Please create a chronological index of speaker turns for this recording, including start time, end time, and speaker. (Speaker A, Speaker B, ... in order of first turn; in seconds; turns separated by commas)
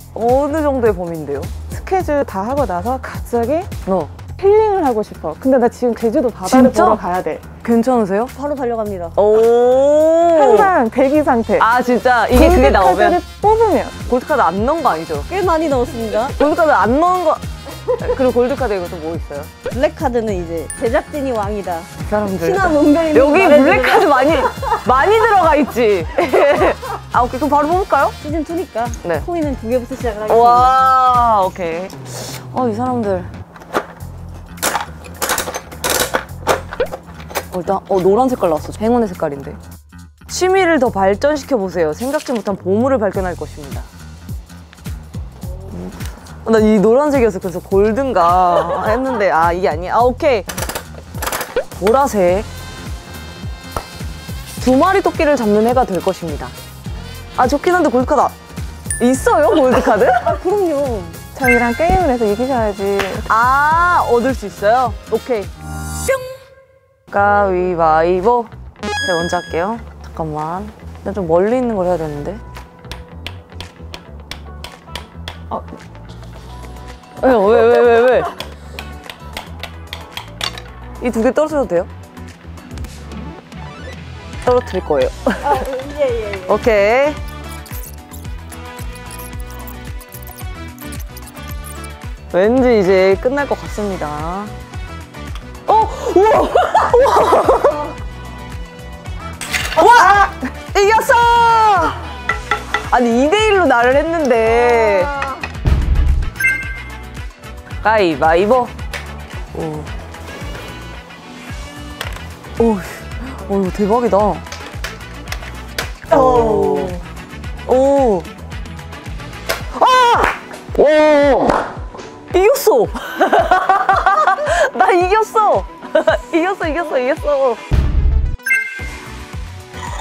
Speaker A: 0.1-1.6, Speaker B: 1.7-3.7, Speaker A: 3.8-4.1, Speaker B: 4.3-7.4, Speaker A: 6.4-7.0, Speaker A: 7.6-8.3, Speaker C: 8.3-9.1, Speaker A: 9.1-10.7, Speaker B: 10.3-11.7, Speaker A: 11.6-13.2, Speaker B: 12.3-13.9, Speaker A: 14.0-15.3, Speaker C: 15.3-16.3, Speaker A: 16.2-19.5, Speaker C: 19.7-24.7, Speaker A: 22.0-28.1, Speaker C: 28.2-30.8, Speaker A: 30.3-33.3, Speaker A: 37.5-39.6, Speaker A: 40.3-43.9, Speaker A: 45.7-50.5, Speaker A: 51.8-52.5, Speaker A: 54.6-56.5, Speaker A: 57.4-58.3, Speaker A: 59.0-60.4, Speaker C: 60.2-61.2, Speaker B: 61.3-63.3, Speaker A: 63.2-65.5, Speaker A: 67.1-72.4, Speaker A: 77.2-78.3, Speaker A: 81.0-81.9, Speaker A: 84.4-85.7, Speaker C: 85.4-86.5, Speaker A: 86.3-87.2, Speaker A: 92.3-94.5, Speaker A: 95.7-97.9, Speaker A: 99.7-102.1, Speaker A: 102.9-105.2, Speaker A: 107.8-108.7, Speaker A: 109.5-109.9, Speaker A: 112.6-114.5, Speaker A: 116.1-117.0, Speaker A: 117.7-118.3, Speaker A: 119.8-121.6, Speaker A: 122.3-127.6